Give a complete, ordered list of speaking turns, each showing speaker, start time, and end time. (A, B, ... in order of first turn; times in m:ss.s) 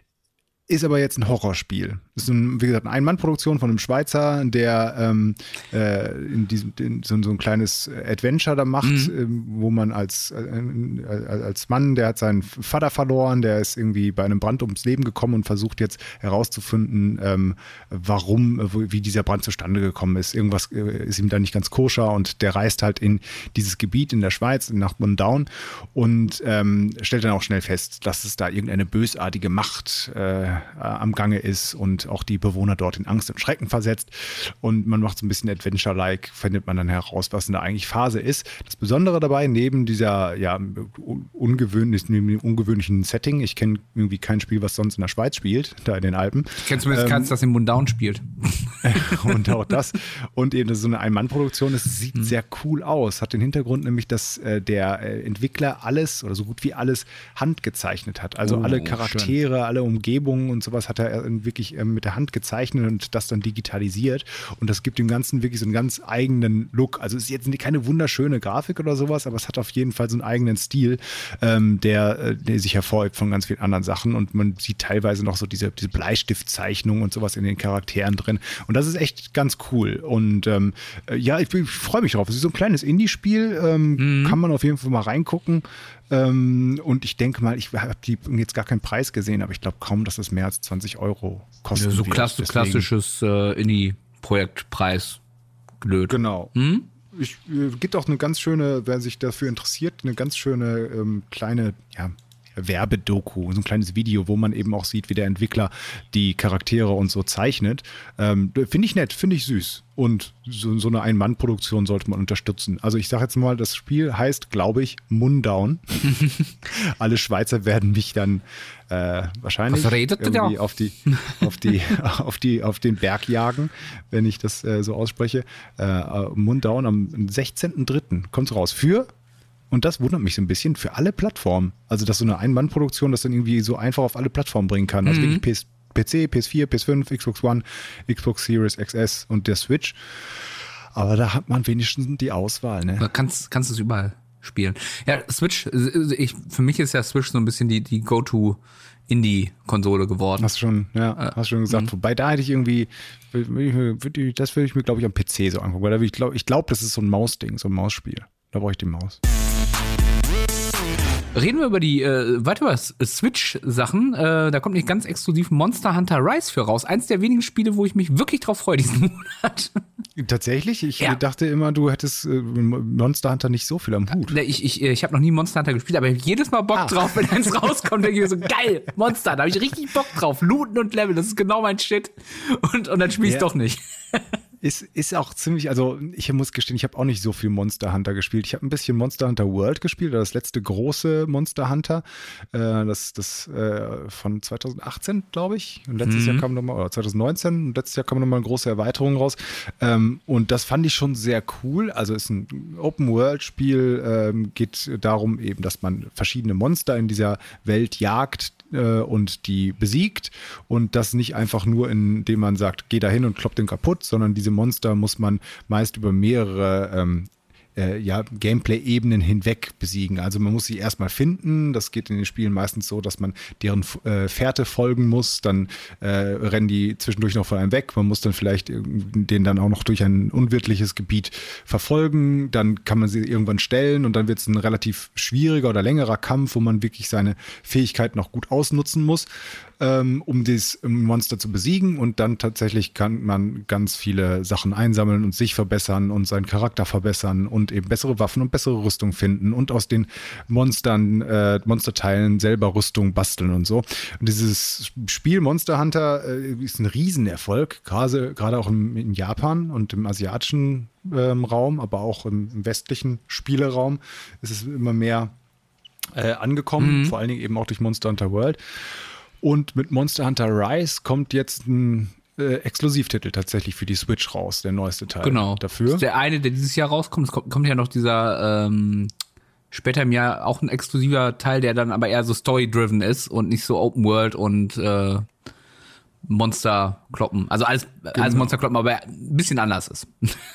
0:00.7-0:47.3 A
0:08.8-0:09.1 B
0:46.6-0:49.6 B
0:48.8-1:32.9 A
0:58.4-0:59.4 B
1:24.0-1:24.4 B
1:31.8-1:35.2 B
1:35.8-1:36.9 B
1:36.1-1:36.5 A
1:37.0-2:09.1 A
1:59.7-2:01.4 B
2:09.7-2:20.0 A
2:15.0-2:15.4 B
2:20.9-2:23.1 A
2:23.0-2:30.5 B
2:30.4-2:39.2 A
2:31.2-2:31.9 B
2:41.3-2:49.8 B
2:50.2-2:54.4 A
2:54.3-3:04.2 B
2:56.7-2:57.5 A
3:03.2-3:03.5 A
3:04.6-4:25.3 A
3:16.0-3:16.4 B
4:26.1-4:36.0 A
4:26.8-4:27.2 B
4:35.2-4:39.1 B
4:39.7-4:45.3 B
4:46.2-4:50.4 B
4:48.1-4:48.5 A